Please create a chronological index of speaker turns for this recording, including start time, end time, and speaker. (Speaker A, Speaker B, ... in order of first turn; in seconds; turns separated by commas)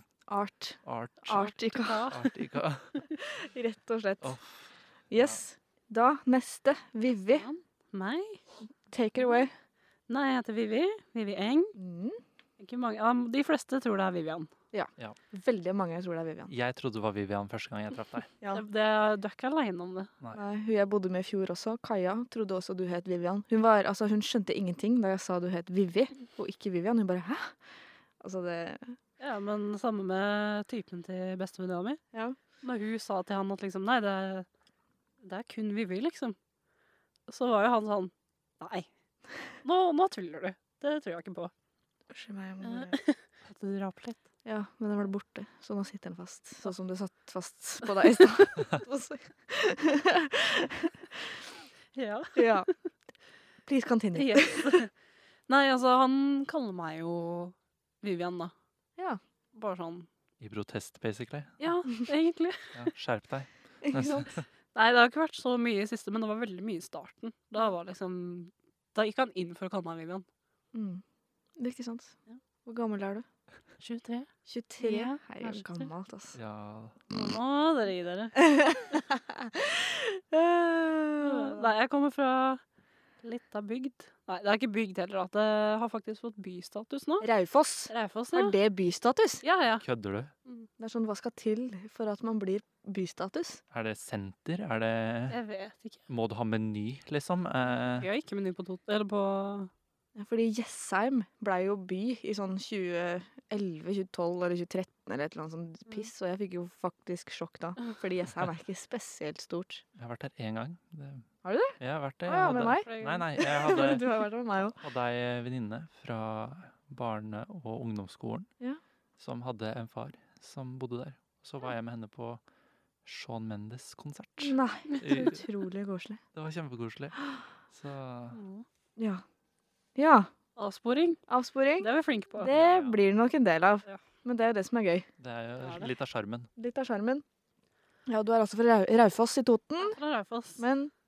Speaker A: 0.3-2.1, Speaker B: 0.8-1.5, Speaker C: 1.3-2.3, Speaker B: 2.1-3.0, Speaker A: 3.1-4.4, Speaker B: 4.2-5.4, Speaker A: 5.1-7.5, Speaker C: 7.3-8.4, Speaker A: 8.9-9.5, Speaker C: 10.1-11.8, Speaker A: 11.8-12.2, Speaker C: 12.6-14.5, Speaker A: 14.7-16.5, Speaker B: 16.5-18.3, Speaker C: 18.5-20.1, Speaker A: 20.3-27.6, Speaker A: 28.2-29.0, Speaker C: 29.2-32.0, Speaker C: 32.6-34.5, Speaker C: 35.2-36.4, Speaker C: 37.3-38.9, Speaker C: 39.6-41.5, Speaker A: 42.1-43.0, Speaker C: 42.6-44.2, Speaker A: 44.5-51.4, Speaker C: 52.0-52.6, Speaker A: 52.4-52.7, Speaker A: 53.7-54.8, Speaker C: 54.1-54.9, Speaker C: 55.5-58.5, Speaker C: 59.5-60.1, Speaker B: 60.4-61.6, Speaker C: 61.6-62.8, Speaker B: 62.7-64.5, Speaker A: 63.8-64.3, Speaker C: 64.7-70.3, Speaker A: 70.7-71.0, Speaker A: 71.6-73.2, Speaker C: 73.8-74.3, Speaker A: 74.5-76.4, Speaker C: 74.8-75.9, Speaker B: 76.3-77.0, Speaker C: 77.1-78.4, Speaker A: 78.4-81.7, Speaker C: 81.2-82.6, Speaker C: 83.2-87.3, Speaker A: 87.2-89.4, Speaker C: 87.9-88.6, Speaker C: 89.4-89.8, Speaker B: 89.8-90.3, Speaker A: 90.8-93.6, Speaker B: 93.7-95.4, Speaker C: 95.3-96.0, Speaker B: 96.1-98.1, Speaker C: 98.0-99.7, Speaker A: 100.2-109.8, Speaker B: 110.0-111.3, Speaker A: 111.4-114.8, Speaker B: 111.8-114.0, Speaker C: 112.8-113.3, Speaker B: 114.8-118.5, Speaker B: 119.2-122.4, Speaker B: 123.0-125.4, Speaker A: 124.4-126.2, Speaker C: 124.9-125.3, Speaker B: 126.3-127.2, Speaker B: 127.7-128.4, Speaker C: 128.3-128.7, Speaker A: 129.0-129.2, Speaker A: 130.0-130.3, Speaker C: 130.6-131.2, Speaker A: 131.3-135.1, Speaker C: 131.8-132.5, Speaker B: 132.4-133.0, Speaker B: 135.2-136.5, Speaker C: 135.6-135.9, Speaker A: 136.6-137.2, Speaker A: 138.1-140.0, Speaker C: 139.8-140.6, Speaker A: 140.6-140.9